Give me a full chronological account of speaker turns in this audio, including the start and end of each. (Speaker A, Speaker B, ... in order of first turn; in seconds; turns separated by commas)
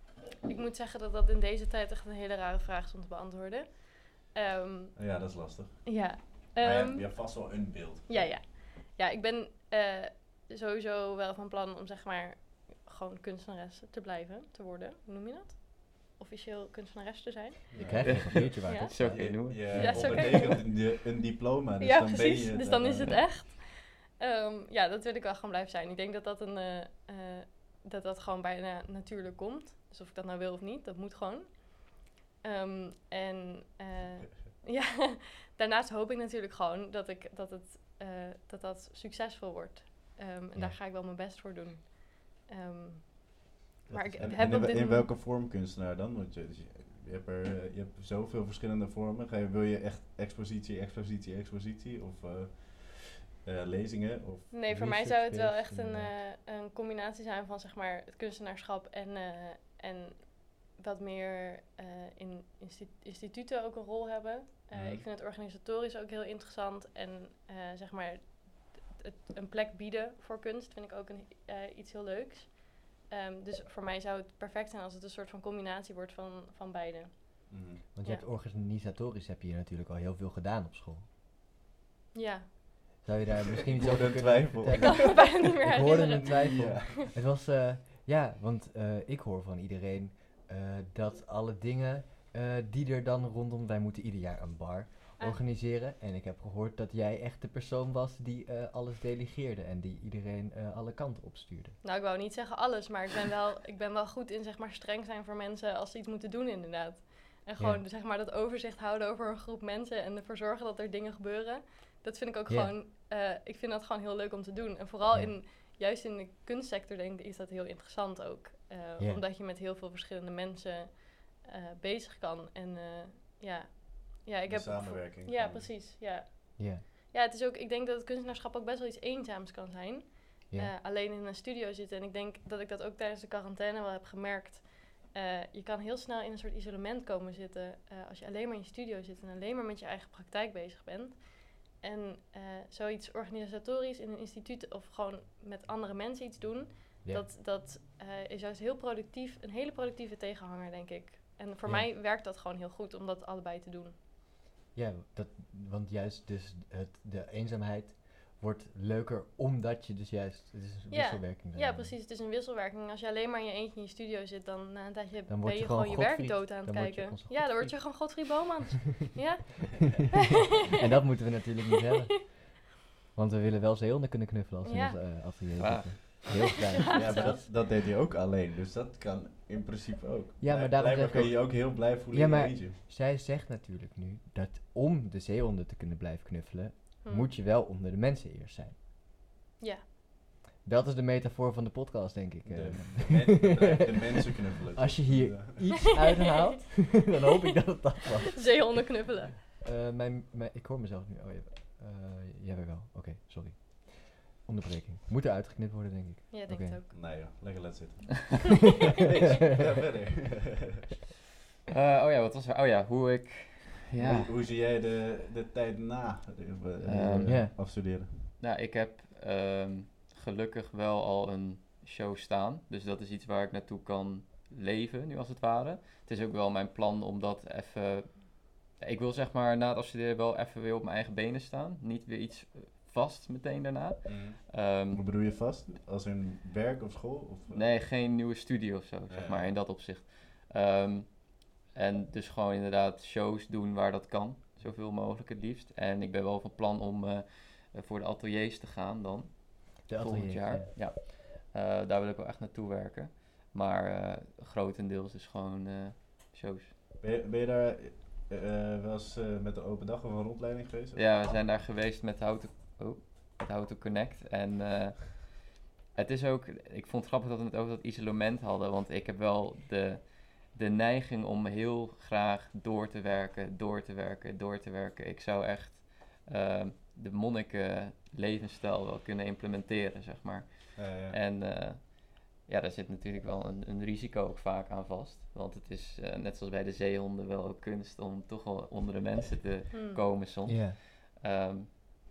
Speaker A: 0.5-20.9, Speaker B: 5.0-8.3, Speaker C: 17.7-20.2, Speaker B: 17.7-23.1, Speaker D: 18.1-20.4, Speaker A: 21.8-45.1, Speaker C: 43.9-44.4, Speaker B: 44.1-54.5, Speaker A: 54.5-78.2, Speaker C: 54.7-56.1, Speaker B: 64.7-65.0, Speaker B: 77.5-77.8, Speaker C: 77.9-81.0, Speaker A: 82.1-82.5, Speaker C: 83.0-101.8, Speaker B: 83.7-87.1, Speaker A: 85.0-86.8, Speaker A: 101.8-153.9, Speaker C: 107.6-107.8, Speaker C: 112.5-112.7, Speaker C: 115.1-115.4, Speaker B: 124.5-125.7, Speaker C: 126.6-126.8, Speaker C: 147.0-147.3, Speaker C: 154.7-161.9, Speaker A: 160.9-170.4, Speaker C: 165.3-168.4, Speaker C: 170.8-172.6, Speaker C: 173.1-177.5, Speaker A: 174.6-175.2, Speaker D: 175.6-176.6, Speaker A: 176.7-177.5, Speaker B: 176.9-182.8, Speaker C: 180.4-188.8, Speaker A: 187.0-187.3, Speaker C: 190.6-194.2, Speaker B: 192.4-196.1, Speaker C: 194.7-199.0, Speaker A: 198.4-199.3, Speaker C: 199.5-206.8, Speaker A: 206.3-206.9, Speaker B: 206.9-210.9, Speaker D: 211.7-214.3, Speaker C: 213.9-214.2, Speaker B: 214.0-218.2, Speaker D: 216.8-217.9, Speaker C: 217.3-217.5, Speaker D: 218.4-235.0, Speaker B: 234.1-237.7, Speaker D: 237.5-256.7, Speaker B: 239.1-239.5, Speaker C: 249.9-250.7, Speaker B: 257.0-261.3, Speaker D: 260.9-265.4, Speaker D: 265.9-291.7, Speaker B: 280.8-281.2, Speaker A: 289.7-290.0, Speaker C: 290.4-290.8